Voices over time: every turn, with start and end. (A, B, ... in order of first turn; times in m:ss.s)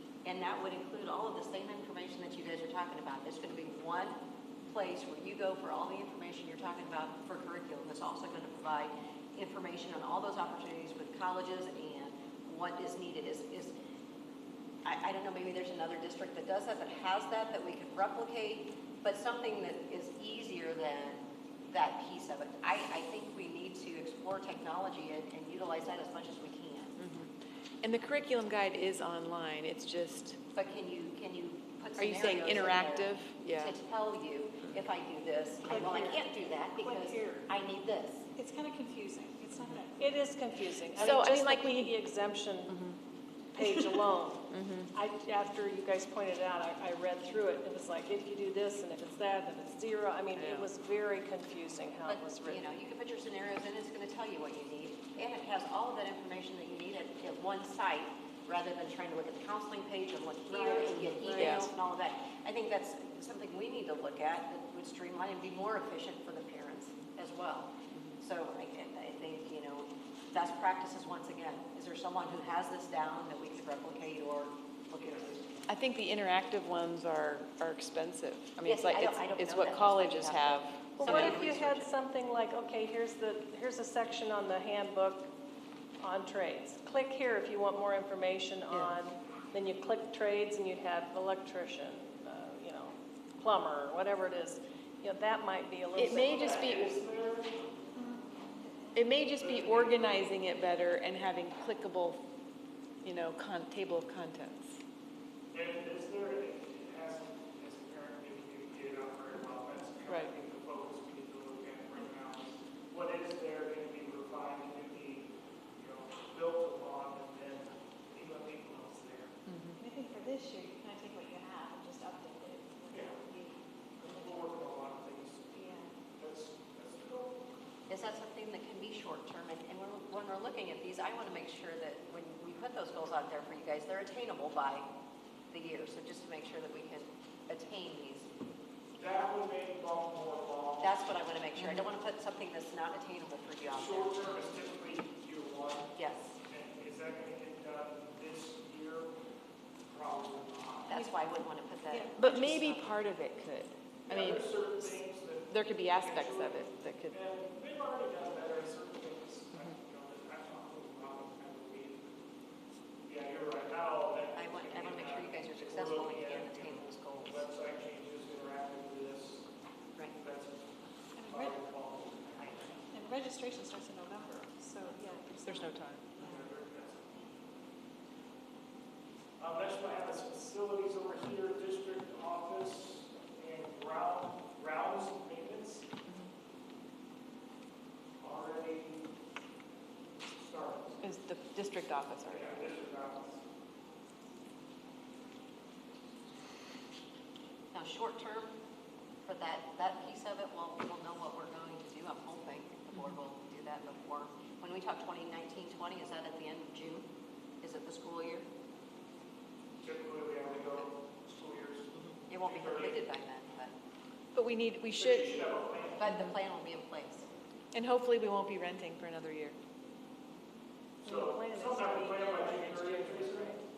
0:00.2-0:13.7 A
0:14.8-0:26.9 A
0:27.0-0:27.3 B
0:27.8-0:30.4 B
0:30.5-0:38.3 A
0:32.0-0:33.8 B
0:35.6-0:37.4 C
0:38.4-0:40.2 D
0:40.0-0:42.9 C
0:41.0-0:41.9 B
0:42.7-0:43.0 B
0:43.5-0:52.7 C
0:44.5-0:44.9 B
0:50.4-0:50.7 B
0:52.1-1:15.5 A
1:00.5-1:01.7 C
1:01.4-1:01.7 B
1:15.7-1:21.4 B
1:18.6-1:21.9 A
1:21.0-1:25.3 C
1:26.0-1:36.7 C
1:36.0-1:36.9 B
1:36.0-1:37.6 E
1:38.0-1:39.1 D
1:38.9-1:42.2 B
1:39.4-1:40.4 E
1:43.0-1:44.8 B
1:45.5-1:59.4 E
1:59.5-1:59.8 B
1:59.8-2:04.5 D
2:02.9-2:03.2 E
2:04.0-2:05.6 E
2:05.6-2:05.9 D
2:06.2-2:07.5 E
2:07.9-2:14.9 A
2:15.5-2:18.3 A
2:19.0-2:21.2 E
2:20.8-2:24.2 A
2:23.7-2:26.0 E
2:26.0-2:26.4 A
2:26.5-2:29.2 E
2:29.9-2:30.9 E
2:30.9-2:32.9 A
2:30.9-2:31.3 D
2:32.2-2:34.5 B
2:34.1-2:42.2 E
2:35.5-2:37.2 B
2:43.0-2:49.5 E
2:44.3-2:47.4 A
2:50.2-2:50.7 E
2:51.2-2:51.6 D
2:51.2-2:52.7 E
2:52.9-2:56.4 D
2:55.4-2:56.0 B
2:56.2-2:57.2 E
2:59.4-3:05.9 E
3:08.2-3:09.1 E
3:10.4-3:11.0 E
3:11.0-3:12.6 B
3:12.3-3:13.4 E
3:17.7-3:18.6 A
3:19.2-3:27.1 A
3:27.6-3:28.5 A
3:29.8-3:31.9 E
3:32.0-3:33.7 A
3:32.4-3:33.0 E
3:34.3-3:35.4 B
3:34.9-3:36.1 E
3:36.0-3:37.3 A
3:37.7-3:39.6 B
3:41.0-3:43.6 E
3:41.0-3:43.6 C